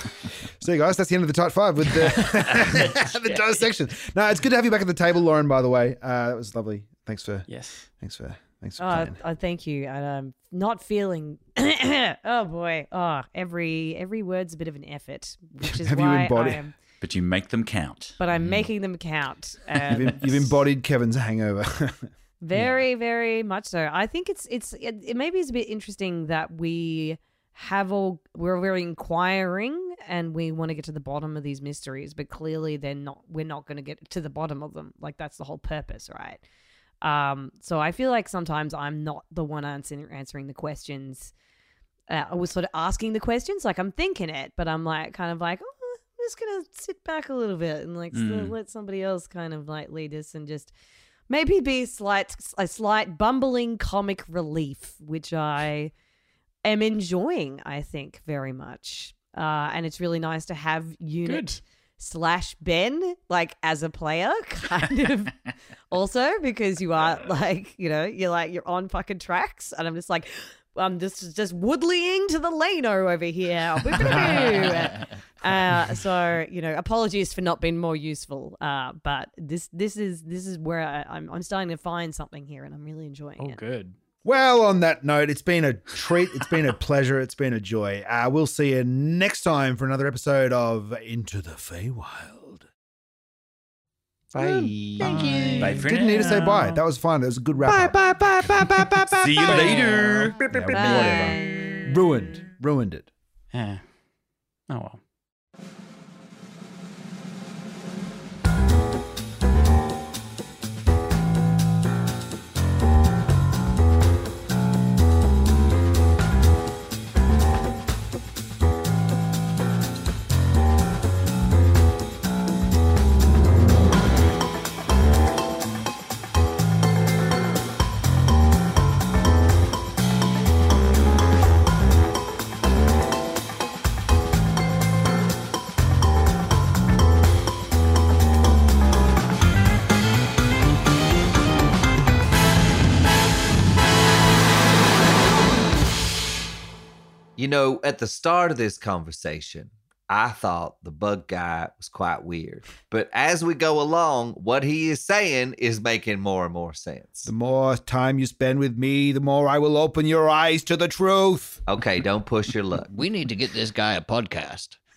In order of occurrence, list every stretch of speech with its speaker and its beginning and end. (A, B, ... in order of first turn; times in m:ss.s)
0:00.2-0:09.2 A
0:07.5-0:07.9 B
0:08.8-0:16.7 C
0:15.6-0:16.6 A
0:17.0-0:18.2 D
0:18.2-0:20.5 C
0:19.9-0:22.1 A
0:22.4-0:36.4 C
0:22.5-0:22.8 B
0:37.0-0:41.3 C
0:42.1-0:50.7 C
0:48.1-0:48.6 D
0:51.3-0:55.9 C
0:56.6-1:23.6 C
1:01.2-1:01.6 B
1:23.4-1:24.0 B
1:24.2-1:32.7 A
1:34.3-1:35.2 E
1:34.4-1:35.8 C
1:35.0-1:36.8 D
1:35.2-1:35.8 F
1:35.8-1:38.1 A
1:37.7-1:39.4 E
1:39.1-1:41.0 D
1:39.4-1:43.1 A
1:39.4-1:40.0 C
1:40.7-1:41.9 C
1:43.5-1:43.8 B
1:44.7-1:45.0 B
2:27.4-2:37.3 E
2:37.3-2:41.6 A
2:41.7-2:42.9 E
2:42.9-2:44.8 F